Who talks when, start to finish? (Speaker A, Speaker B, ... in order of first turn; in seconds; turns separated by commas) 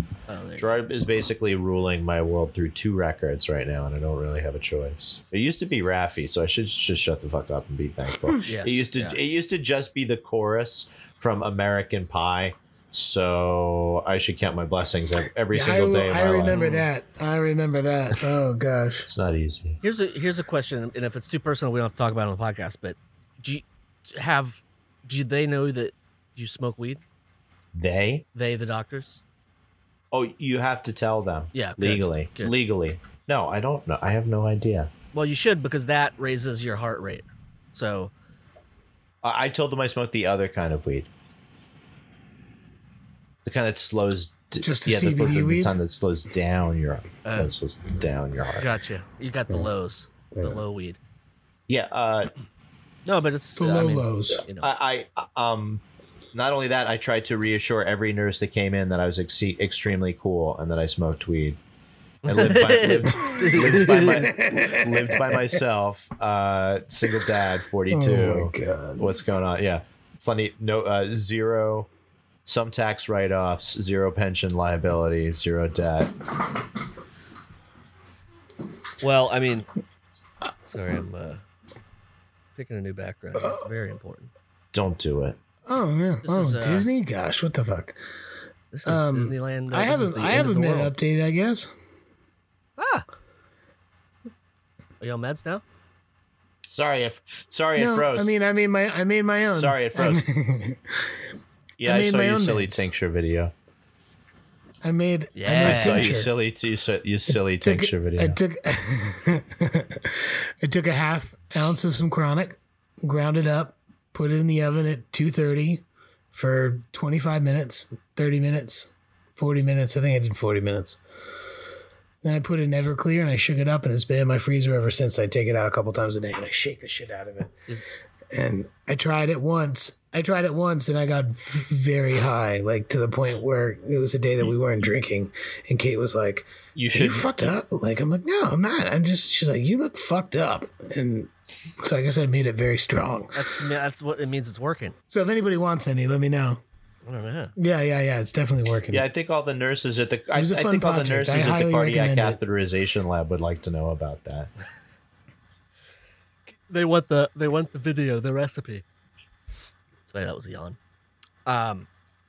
Speaker A: 0.3-0.7, Speaker B: 0.6-16.6, Speaker A: 8.4-9.2, Speaker C: 15.5-19.1, Speaker A: 16.5-16.8, Speaker B: 19.1-19.8, Speaker A: 19.8-27.0, Speaker B: 27.7-28.2, Speaker A: 28.3-29.2, Speaker B: 30.1-34.9, Speaker A: 31.5-32.5, Speaker A: 35.1-38.1, Speaker B: 39.2-41.1, Speaker B: 43.4-48.7, Speaker C: 44.6-45.7, Speaker A: 47.2-47.5, Speaker A: 48.6-51.0, Speaker C: 50.3-50.6, Speaker B: 51.7-52.3, Speaker A: 53.0-54.7, Speaker C: 53.6-54.4, Speaker B: 54.6-55.8, Speaker B: 56.3-61.6, Speaker A: 62.2-64.2, Speaker B: 62.2-71.9, Speaker C: 64.0-65.4, Speaker C: 67.9-69.1, Speaker B: 72.5-76.1, Speaker A: 79.0-79.7, Speaker A: 80.6-81.4, Speaker A: 82.5-84.3, Speaker B: 84.7-85.4, Speaker C: 85.7-88.0, Speaker A: 86.2-86.9, Speaker A: 88.7-90.9, Speaker C: 88.8-91.7, Speaker A: 92.8-93.0, Speaker A: 95.0-95.6, Speaker B: 96.6-98.3, Speaker C: 97.8-101.1, Speaker B: 99.5-100.2, Speaker B: 101.8-103.5, Speaker C: 101.8-102.8, Speaker C: 104.8-106.3, Speaker A: 105.3-106.1, Speaker B: 105.6-108.4, Speaker C: 107.3-121.0, Speaker C: 122.2-127.5, Speaker C: 128.3-143.5, Speaker B: 136.7-137.3, Speaker A: 143.3-144.9, Speaker C: 145.1-146.6, Speaker A: 147.0-147.5, Speaker C: 147.6-149.1, Speaker B: 148.9-154.5, Speaker C: 150.3-152.4, Speaker A: 156.7-158.8, Speaker A: 160.1-160.8, Speaker A: 161.4-161.9